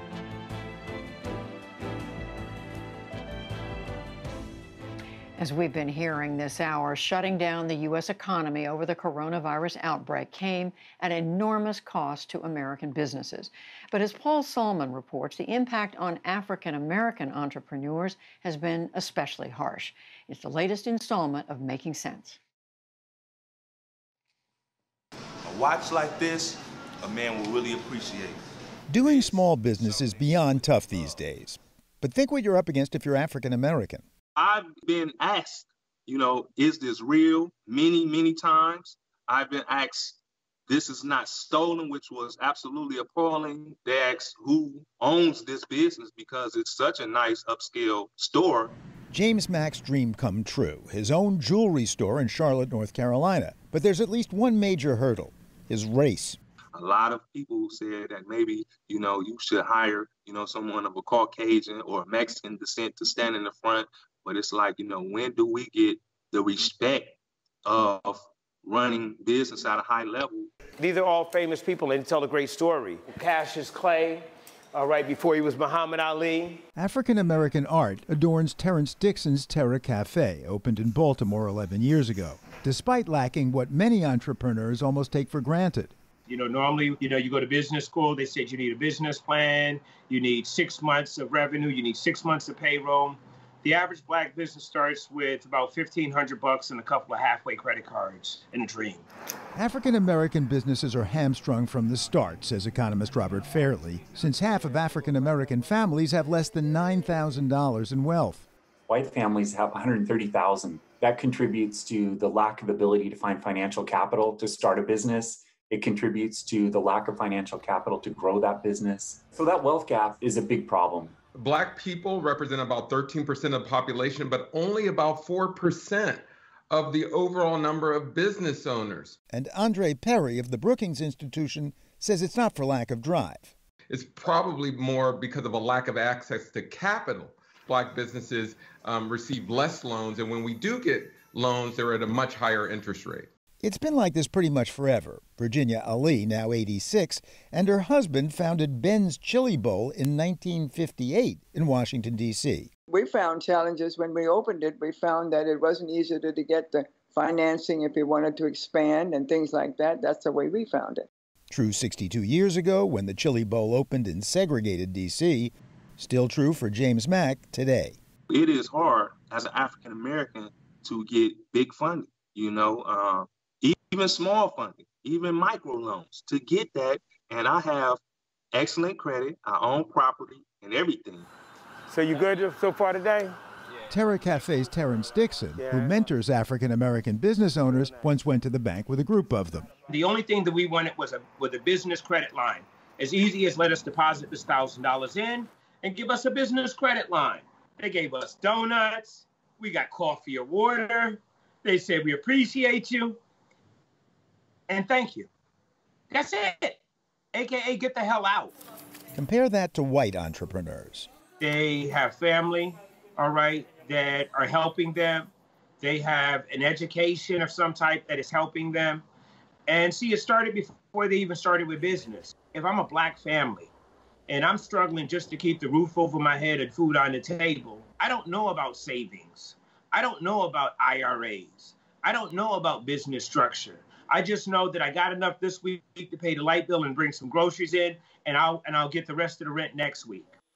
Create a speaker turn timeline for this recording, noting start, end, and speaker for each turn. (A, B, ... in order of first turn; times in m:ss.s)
0:05.4-0:22.4 A
0:25.4-0:28.4 B
0:28.9-0:34.0 C
0:29.0-0:31.1 B
0:34.4-0:48.8 D
0:49.1-0:56.4 C
0:56.8-1:10.5 D
1:10.8-1:14.2 E
1:14.8-1:16.6 E
1:16.8-1:26.0 C
1:26.3-1:39.0 F
1:39.5-1:48.5 C
1:48.9-2:01.2 G
2:01.3-2:09.2 H
2:09.3-2:13.5 C
2:13.9-2:23.3 H
2:23.6-2:32.7 C
2:32.9-2:41.1 I
2:41.5-2:48.0 C
2:48.3-2:58.0 D
2:58.5-3:01.3 D
3:01.9-3:03.3 E
3:03.9-3:09.8 C
3:05.6-3:05.9 E
3:07.7-3:08.1 E
3:09.9-3:23.2 F
3:24.7-3:25.3 F
3:26.1-3:26.8 F
3:27.3-3:28.5 F
3:29.1-3:31.1 C
3:31.4-3:35.3 F
3:35.8-3:39.0 F
3:39.7-3:43.7 F
3:44.3-4:00.3 F